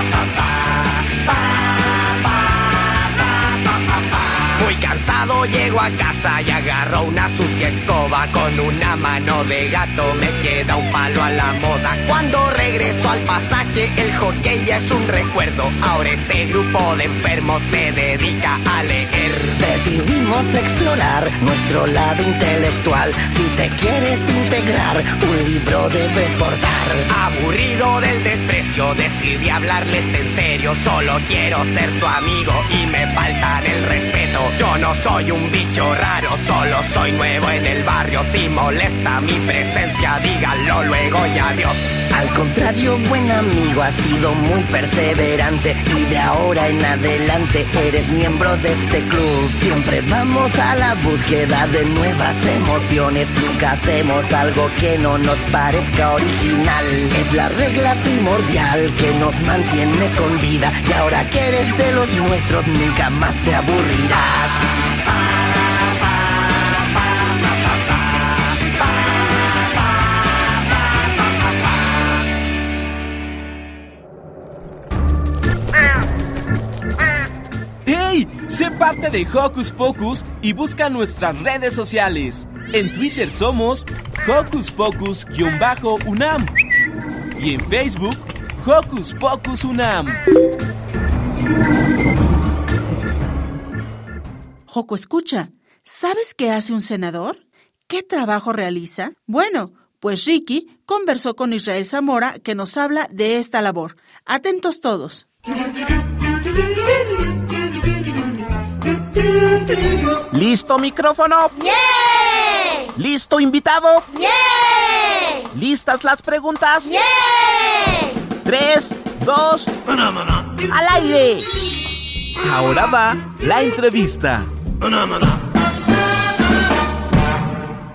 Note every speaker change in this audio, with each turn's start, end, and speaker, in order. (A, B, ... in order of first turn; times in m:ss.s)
0:04.5-0:19.6 A
0:19.6-0:27.1 B
0:27.1-0:41.8 A
0:42.1-1:04.7 B
1:17.8-1:26.5 C
1:27.4-1:30.2 C
1:34.7-1:45.2 D
1:50.3-1:51.6 E
1:52.9-1:54.1 E
1:55.5-1:57.0 E
1:58.4-1:59.7 E
2:00.7-2:01.5 E
2:02.4-2:04.5 C
2:02.9-2:03.3 E